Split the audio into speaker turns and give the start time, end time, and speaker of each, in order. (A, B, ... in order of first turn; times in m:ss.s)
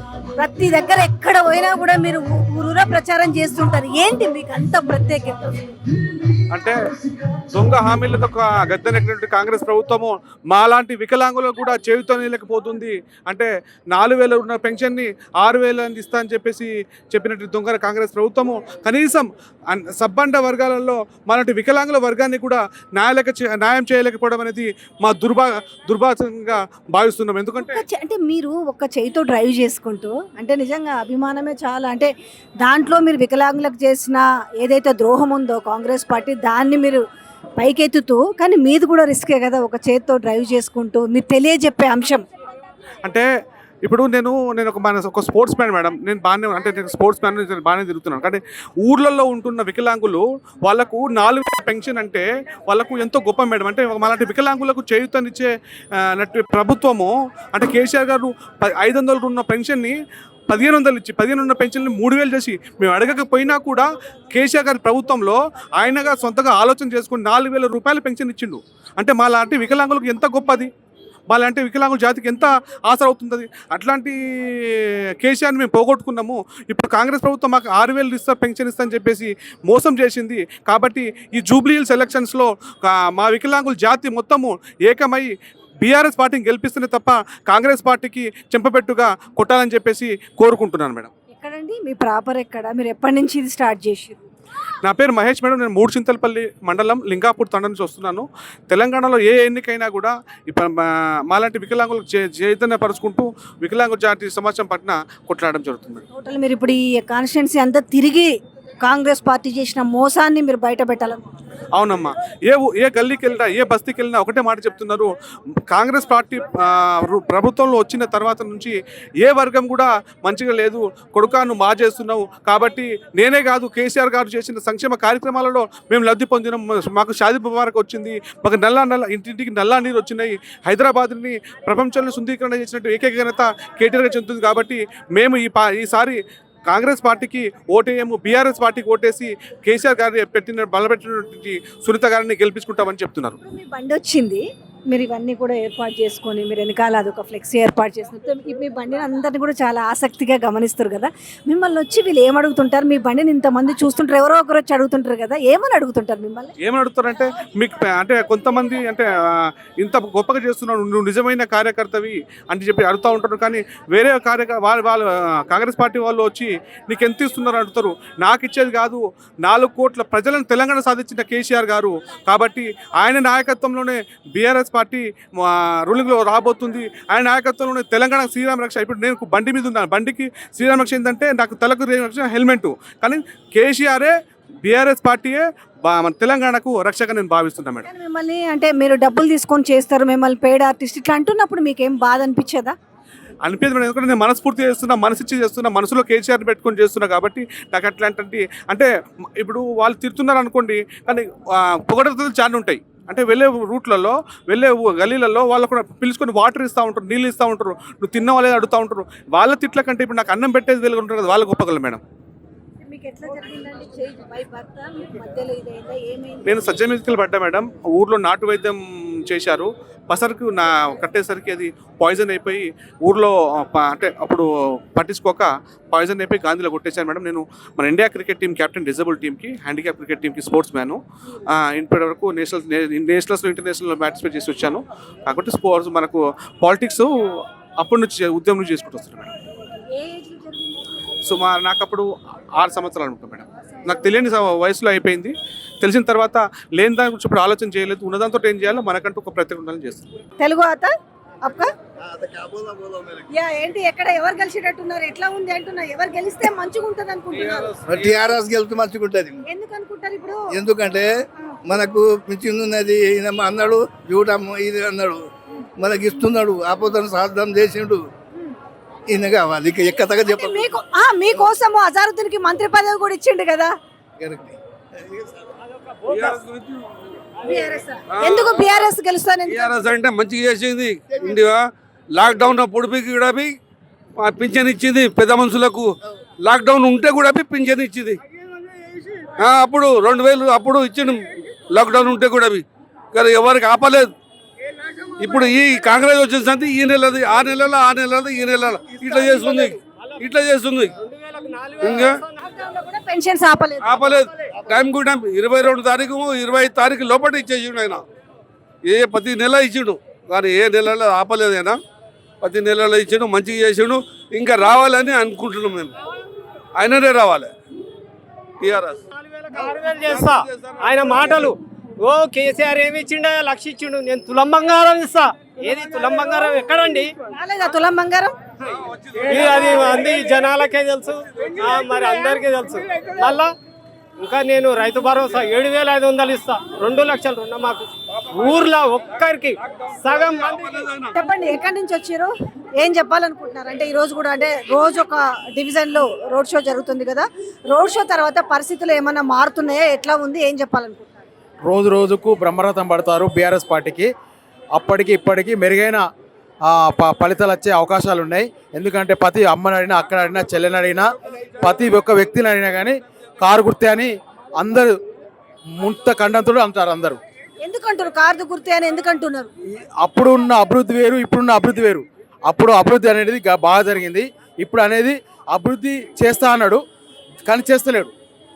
0:00.3-0:05.6 A
0:06.5-0:06.8 B
0:07.5-0:27.8 B
0:27.6-0:32.1 A
0:32.6-0:37.0 A
0:37.6-0:42.2 A
0:43.8-1:00.0 B
1:00.5-1:10.7 B
1:11.3-1:31.1 B
1:31.3-1:34.2 A
1:34.8-1:46.0 B
1:46.1-1:51.2 A
1:51.8-1:55.1 B
1:55.7-2:16.2 B
2:16.7-2:23.4 B
2:23.4-2:36.5 A
2:36.6-3:07.9 B
3:07.8-3:12.7 A
3:13.4-3:32.0 B
3:32.8-3:36.7 A
3:36.4-3:59.3 B
3:59.6-4:00.8 A
4:01.2-4:10.2 B
4:10.4-4:10.9 A
4:11.4-4:11.7 A
4:12.1-4:13.2 C
4:13.3-4:17.8 A
4:17.4-4:18.2 D
4:17.9-4:19.4 C
4:19.4-4:20.5 A
4:20.5-4:21.1 C
4:21.7-4:25.2 C
4:25.8-4:28.0 C
4:29.1-4:30.7 C
4:30.3-4:33.7 A
4:34.2-4:35.3 C
4:36.1-4:36.9 D
4:37.4-4:39.9 A
4:38.1-4:38.6 D
4:39.5-4:43.6 D
4:44.2-4:48.2 D
4:49.4-4:54.1 D
4:55.2-5:00.9 D
5:01.0-5:02.2 E
5:01.8-5:02.2 D
5:02.4-5:04.0 A
5:03.8-5:08.0 D
5:08.8-5:11.8 D
5:12.4-5:15.9 D
5:16.8-5:17.5 D
5:18.6-5:19.0 D
5:19.2-5:27.1 E
5:20.0-5:21.3 D
5:27.3-5:28.3 A
5:29.2-5:33.5 E
5:34.2-5:40.6 E
5:40.4-5:41.1 D
5:41.1-5:51.2 A
5:51.7-5:54.1 F
5:54.7-5:56.0 F
5:56.7-6:01.1 F
6:01.6-6:05.0 F
6:05.8-6:07.2 F
6:07.6-6:09.5 A
6:09.8-6:16.8 F
6:17.5-6:18.1 F